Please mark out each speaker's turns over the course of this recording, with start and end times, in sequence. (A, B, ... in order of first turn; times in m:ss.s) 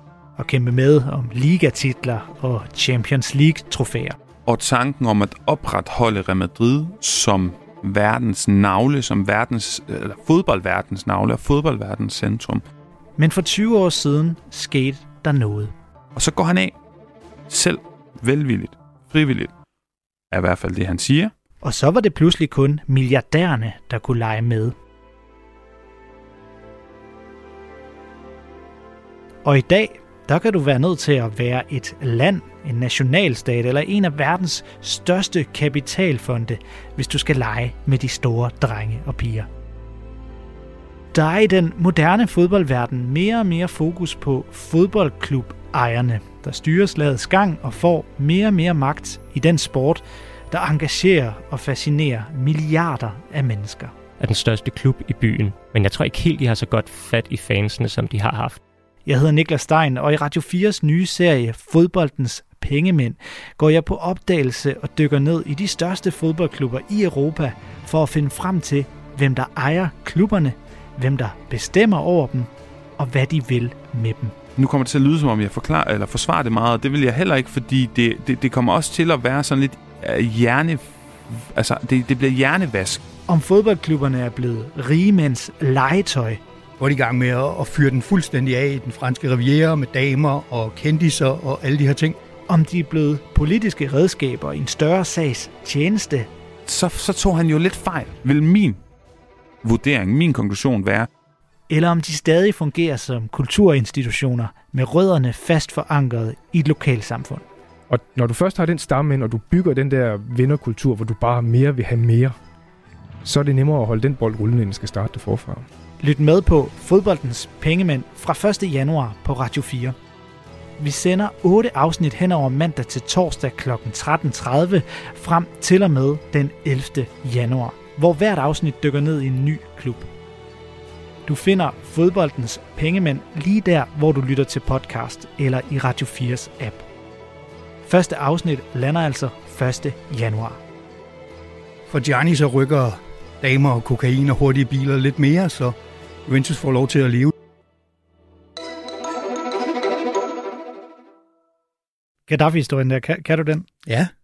0:00.4-0:04.2 A
0:04.4-0:12.6 B
0:13.2-0:15.7 A
0:16.2-0:16.8 B
0:17.5-0:19.5 B
0:20.3-0:21.3 B
0:21.6-0:24.7 A
0:29.4-0:39.5 A
0:41.1-0:53.9 A
0:54.2-0:58.6 C
0:59.0-1:14.3 A
1:14.6-1:23.0 B
1:23.3-1:26.4 A
1:26.8-1:32.2 D
1:32.5-1:36.3 A
1:36.6-1:38.8 B
1:39.6-1:41.1 B
1:41.7-1:47.4 A
1:47.9-1:52.4 E
1:53.2-1:55.6 E
1:56.0-1:59.9 A
2:00.8-2:10.1 A
2:11.2-2:16.8 A
2:17.8-2:20.6 A
2:21.9-2:27.3 D
2:32.3-2:33.7 A
2:33.8-2:34.1 D